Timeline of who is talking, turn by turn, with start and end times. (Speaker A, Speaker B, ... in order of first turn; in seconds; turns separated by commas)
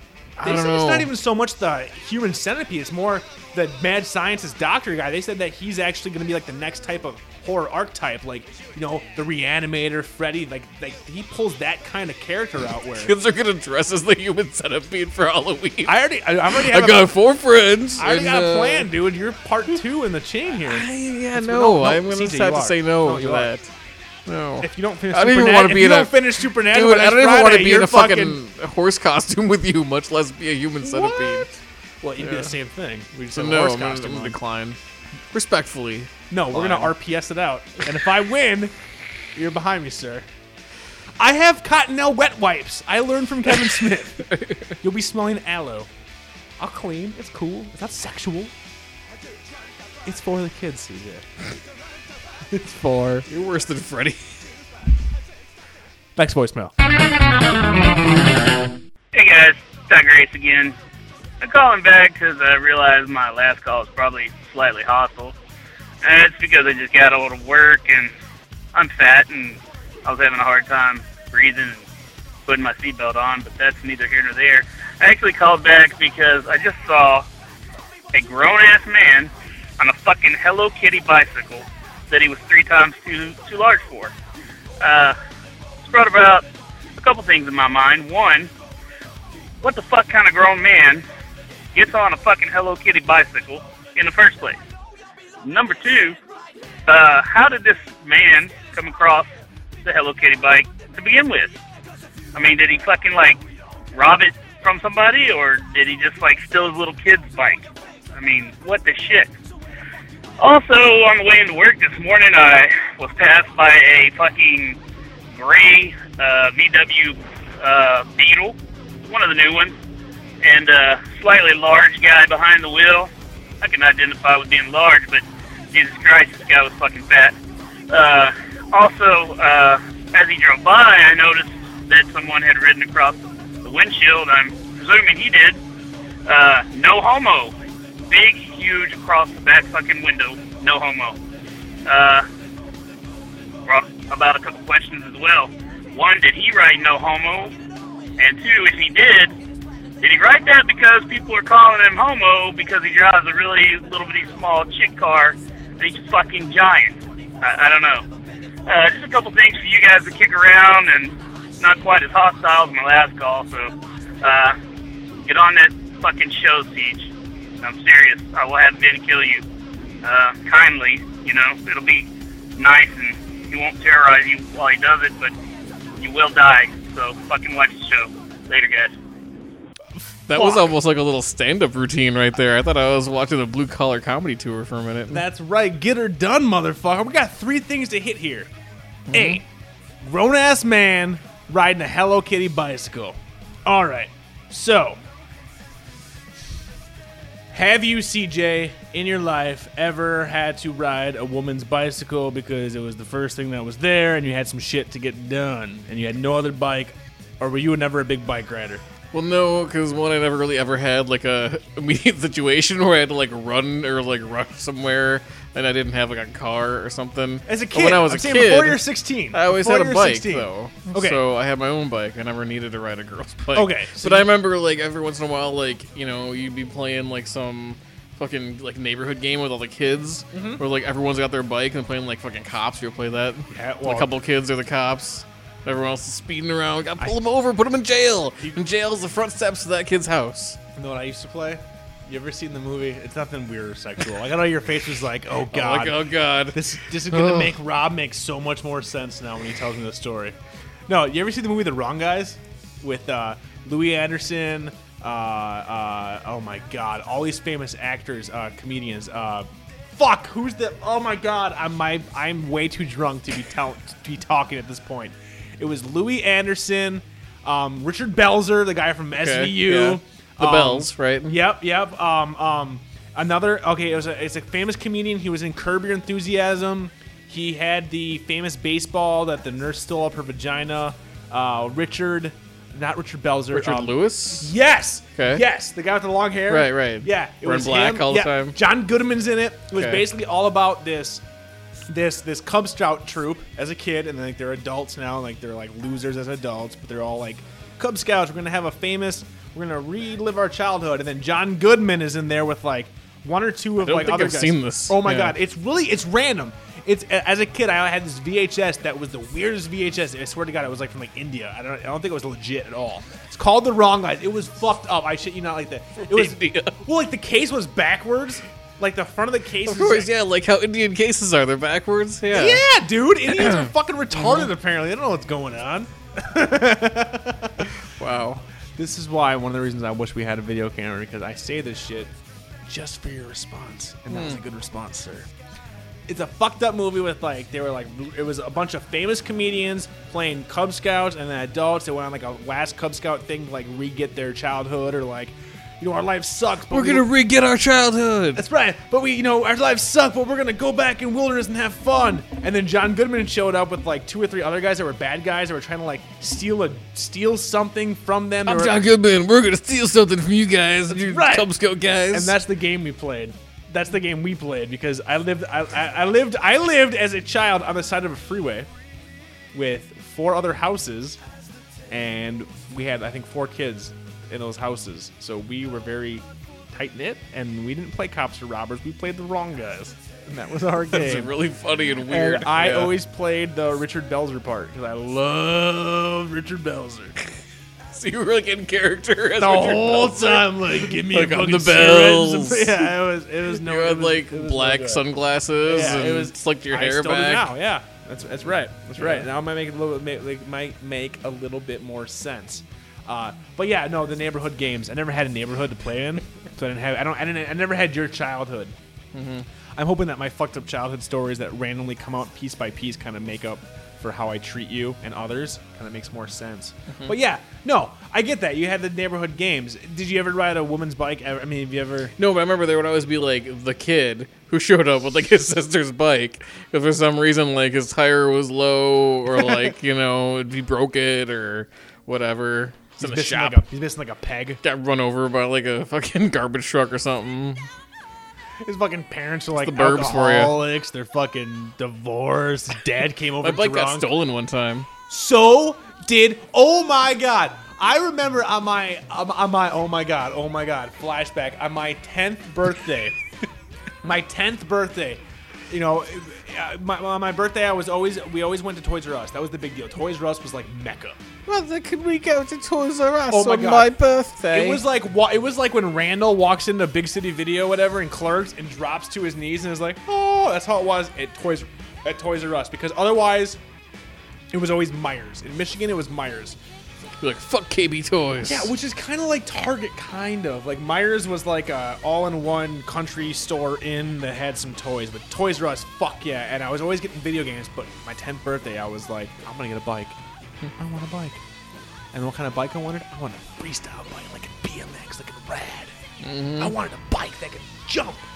Speaker A: 0.4-1.1, Speaker B: 0.4-13.1, Speaker A: 13.0-18.9, Speaker B: 15.8-17.1, Speaker B: 18.0-23.5, Speaker A: 20.6-23.7, Speaker A: 24.3-31.5, Speaker B: 24.6-28.4, Speaker B: 30.8-31.5, Speaker B: 32.0-34.4, Speaker A: 32.2-32.5, Speaker A: 33.3-34.8, Speaker A: 35.3-36.9, Speaker B: 36.3-38.8, Speaker B: 39.4-40.3, Speaker B: 41.2-44.3, Speaker A: 44.2-44.8, Speaker B: 44.8-45.9, Speaker B: 46.6-48.5, Speaker B: 50.0-51.3, Speaker B: 52.5-53.3, Speaker A: 53.3-54.2, Speaker B: 56.2-56.7, Speaker C: 59.1-60.8, Speaker C: 61.4-65.3, Speaker C: 66.0-68.1, Speaker C: 68.7-71.9, Speaker C: 72.5-77.3, Speaker C: 78.1-84.1, Speaker C: 84.8-85.2, Speaker C: 85.8-88.5, Speaker C: 89.6-91.0, Speaker C: 91.7-94.6, Speaker C: 95.4-96.2, Speaker C: 96.9-99.3, Speaker C: 99.8-101.6, Speaker C: 102.3-103.4, Speaker C: 103.9-109.3, Speaker C: 110.4-114.8, Speaker C: 115.3-119.8, Speaker C: 120.4-123.1, Speaker C: 123.6-127.3, Speaker C: 127.9-135.6, Speaker C: 136.3-137.6, Speaker C: 138.1-141.2, Speaker C: 141.9-142.3, Speaker C: 143.7-147.5, Speaker C: 148.2-149.4, Speaker C: 150.0-158.0, Speaker C: 158.7-164.6, Speaker C: 165.3-167.1, Speaker C: 167.6-169.4, Speaker C: 170.0-175.3, Speaker C: 176.0-178.9, Speaker A: 180.3-185.2, Speaker B: 180.3-180.7, Speaker B: 185.1-188.5, Speaker A: 189.1-189.4, Speaker B: 189.1-189.4, Speaker B: 190.0-195.0, Speaker B: 197.5-208.8, Speaker A: 209.1-240.6, Speaker B: 217.5-221.2, Speaker B: 223.5-224.3, Speaker B: 230.3-230.6, Speaker B: 233.5-234.1, Speaker B: 240.8-250.4, Speaker A: 245.5-247.5, Speaker B: 250.9-291.2, Speaker A: 269.2-271.4, Speaker A: 283.5-284.5, Speaker A: 285.2-285.4, Speaker A: 286.5-288.6, Speaker A: 289.8-290.1, Speaker B: 291.9-320.1, Speaker A: 303.8-305.4, Speaker A: 316.0-316.8, Speaker A: 319.6-322.6, Speaker B: 322.3-327.7, Speaker A: 323.4-324.5, Speaker A: 327.8-328.4, Speaker B: 328.8-332.1, Speaker B: 332.7-335.3, Speaker A: 334.1-334.4, Speaker B: 336.1-347.1, Speaker A: 346.7-348.4, Speaker B: 348.4-358.8, Speaker A: 358.4-362.3, Speaker B: 360.9-361.5, Speaker B: 362.1-368.7, Speaker B: 369.5-371.2, Speaker B: 371.9-381.4, Speaker A: 380.9-383.0, Speaker B: 382.1-387.2, Speaker A: 387.9-392.9, Speaker B: 389.4-395.1, Speaker A: 393.5-397.5, Speaker B: 395.6-408.8, Speaker A: 399.0-399.3, Speaker A: 409.1-409.5, Speaker B: 409.8-422.1, Speaker A: 422.2-433.6, Speaker B: 429.3-429.7, Speaker B: 433.0-434.6, Speaker A: 434.6-437.7, Speaker B: 438.6-444.1, Speaker A: 439.6-440.6, Speaker A: 443.4-444.9, Speaker B: 445.1-453.1, Speaker B: 454.0-461.2, Speaker A: 461.5-464.8, Speaker B: 463.3-463.9, Speaker B: 464.5-473.6, Speaker B: 474.5-476.6, Speaker A: 477.2-478.7, Speaker B: 478.4-490.2, Speaker B: 490.8-491.4, Speaker B: 492.1-495.9, Speaker A: 496.2-496.8, Speaker B: 496.6-498.2